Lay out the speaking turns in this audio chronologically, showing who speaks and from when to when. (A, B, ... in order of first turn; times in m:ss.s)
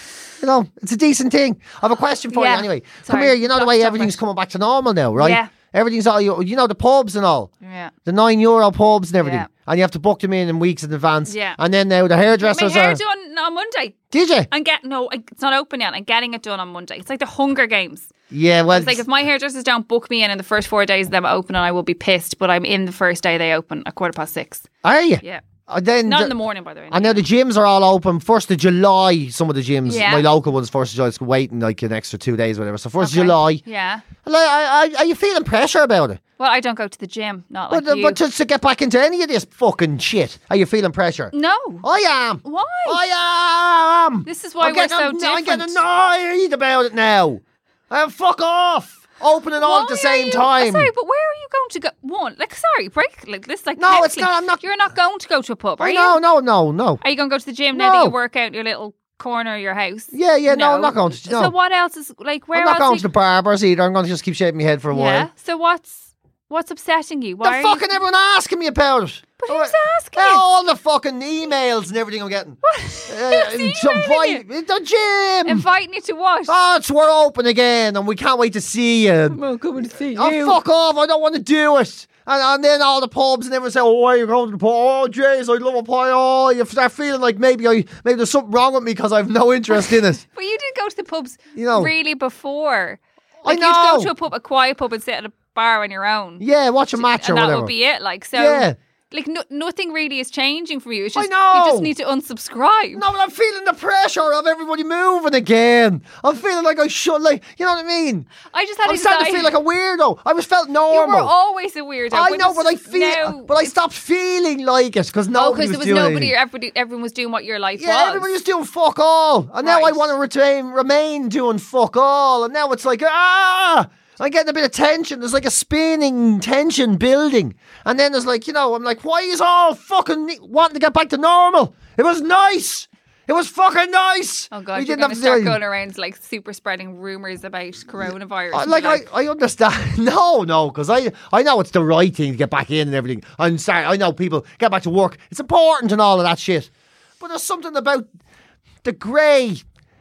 0:00.4-0:07.5 A
0:02.3-0:04.2 B
0:05.2-0:05.5 B
0:07.6-0:07.9 B
0:08.0-0:13.0 A
0:09.2-0:09.5 B
0:11.3-0:11.6 B
0:12.3-0:18.1 B
0:14.1-0:14.5 A
0:18.3-0:19.0 A
0:18.7-0:24.7 B
0:24.8-0:26.3 A
0:26.0-0:27.2 B
0:26.9-0:33.6 A
0:29.8-0:30.3 B
0:33.0-0:34.0 B
0:34.2-0:36.2 A
0:36.4-0:38.2 B
0:37.7-0:50.9 A
0:41.3-0:41.8 B
0:42.4-0:43.1 B
0:44.2-0:45.8 B
0:49.6-0:56.2 B
0:53.8-0:54.6 A
0:55.8-0:57.0 A
0:57.0-1:03.0 B
0:57.7-0:58.1 A
1:00.1-1:01.5 A
1:02.5-1:05.3 A
1:04.9-1:07.9 B
1:07.4-1:15.6 A
1:09.4-1:10.4 B
1:12.6-1:14.4 B
1:15.4-1:16.5 B
1:16.5-1:19.4 A
1:19.3-1:20.6 B
1:20.0-1:30.2 A
1:29.7-1:43.0 B
1:31.5-1:31.9 A
1:33.4-1:34.1 A
1:36.4-1:37.7 A
1:38.4-1:38.8 A
1:41.2-1:41.9 A
1:42.9-1:48.3 A
1:48.5-1:49.5 B
1:48.8-1:51.3 A
1:50.9-1:53.7 B
1:52.1-1:56.3 A
1:55.3-1:58.3 B
1:57.8-2:15.6 A
1:59.6-2:00.1 B
2:14.5-2:19.0 B
2:18.0-2:26.7 A
2:27.2-2:28.1 A
2:28.8-2:29.6 A